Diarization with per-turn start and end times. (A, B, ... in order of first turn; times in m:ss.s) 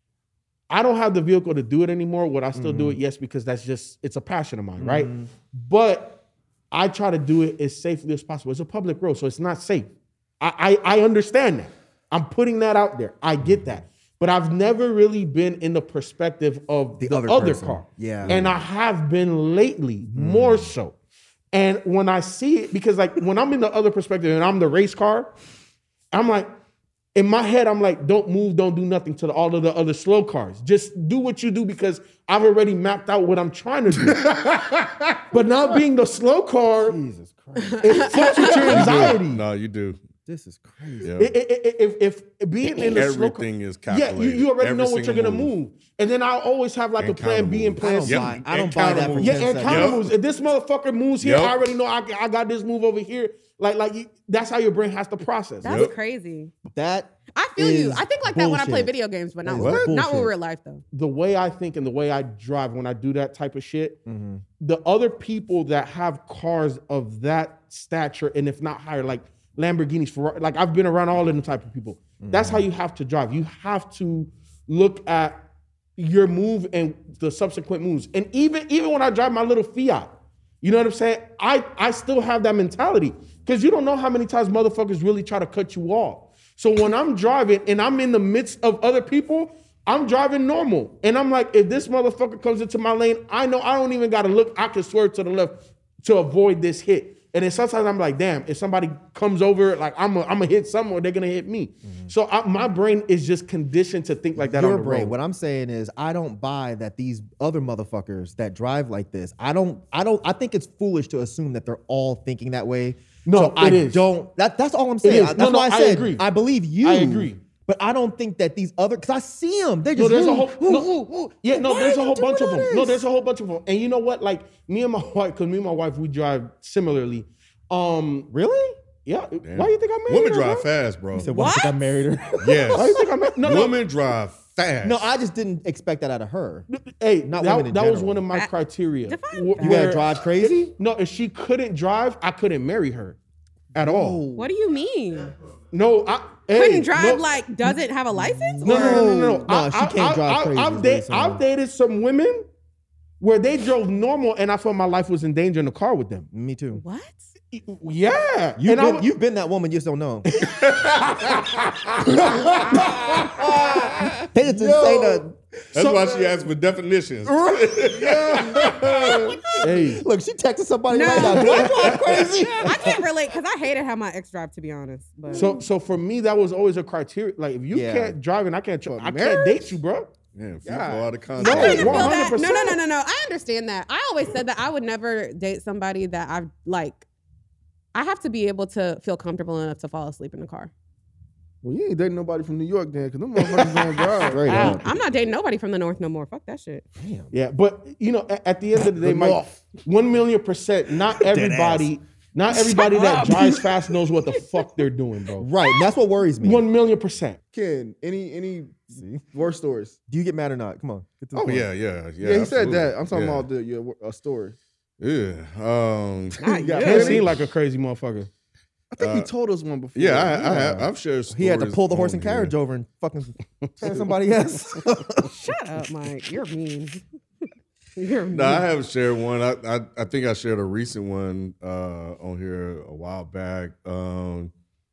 0:00.7-0:06.2 A
0:02.6-0:03.0 B
0:04.8-0:05.3 B
0:06.7-0:20.9 A
0:17.0-0:18.6 B
0:20.2-0:20.7 B
0:21.5-0:25.3 A
0:26.1-0:26.5 A
0:27.2-0:34.5 A
0:35.3-0:37.0 A
0:36.8-0:39.2 B
0:37.6-0:38.8 C
0:37.8-0:39.3 A
0:38.8-0:39.4 D
0:38.8-0:40.0 E
0:40.2-0:41.1 B
0:41.0-0:41.4 E
0:41.2-0:48.4 A
0:42.8-0:45.5 E
0:47.0-0:50.1 E
0:47.8-0:50.0 B
0:49.2-0:55.8 A
0:51.2-0:51.6 E
0:55.6-0:56.5 C
0:55.6-0:55.9 E
0:56.6-0:58.9 B
0:57.3-1:00.8 C
0:59.4-1:00.3 B
0:59.6-0:59.9 E
1:00.9-1:04.0 A
1:04.1-1:04.4 B
1:04.6-1:15.5 A
1:12.2-1:12.7 B
1:16.0-1:45.1 A
1:41.8-1:42.1 B
1:44.4-2:03.0 B
1:53.2-1:54.1 A
1:55.0-1:56.2 A
1:56.8-1:57.4 A
2:00.0-2:08.3 A
2:08.3-2:08.8 B
2:09.0-2:10.7 A
2:09.4-2:11.3 E
2:11.1-2:13.0 B
2:11.3-2:11.9 C
2:12.4-2:15.0 E
2:12.7-2:13.8 A
2:14.8-2:16.7 B
2:16.7-2:23.2 A
2:17.2-2:18.2 B
2:19.0-2:20.0 C
2:19.6-2:20.7 B
2:23.7-2:24.2 A
2:23.8-2:24.5 B
2:24.4-2:25.3 C
2:25.7-2:27.2 A
2:26.5-2:29.1 C
2:28.2-2:31.4 B
2:28.6-2:32.5 A
2:33.2-2:36.3 A
2:36.3-2:36.8 B
2:36.7-2:37.3 C
2:37.5-2:39.1 A
2:38.6-2:40.3 B
2:40.3-2:42.1 A
2:42.2-2:45.2 D
2:44.3-2:45.3 B
2:45.7-2:49.2 E
2:45.8-2:46.2 A
2:47.3-2:53.0 B
2:47.9-2:49.8 D
2:49.6-2:50.0 A
2:50.9-2:52.0 C
2:51.3-2:52.5 D
2:52.6-2:55.5 C
2:55.3-3:00.1 A
2:57.7-2:58.2 B
2:58.9-2:59.8 D
3:00.4-3:02.1 E
3:00.6-3:01.2 D
3:01.4-3:02.8 A
3:01.4-3:07.0 C
3:07.9-3:10.7 C
3:11.6-3:14.8 D
3:13.5-3:14.2 A
3:14.2-3:14.8 B
3:14.5-3:16.8 C
3:17.0-3:17.3 B
3:17.3-3:25.5 A
3:19.0-3:19.4 D
3:21.3-3:21.9 B
3:22.6-3:23.6 C
3:25.4-3:26.6 B
3:26.4-3:27.4 A
3:27.5-3:30.0 D
3:28.9-3:29.2 B
3:30.1-3:31.7 B
3:31.4-3:31.6 D
3:31.4-3:33.5 E
3:32.2-3:34.6 D
3:35.0-3:36.6 E
3:36.4-3:37.3 C
3:36.6-3:37.3 D
3:36.8-3:38.3 A
3:38.9-3:40.9 D
3:39.0-3:39.3 E
3:39.9-3:42.5 E
3:41.3-3:45.5 B
3:45.2-3:47.0 C
3:48.0-3:48.7 C
3:48.3-3:54.5 E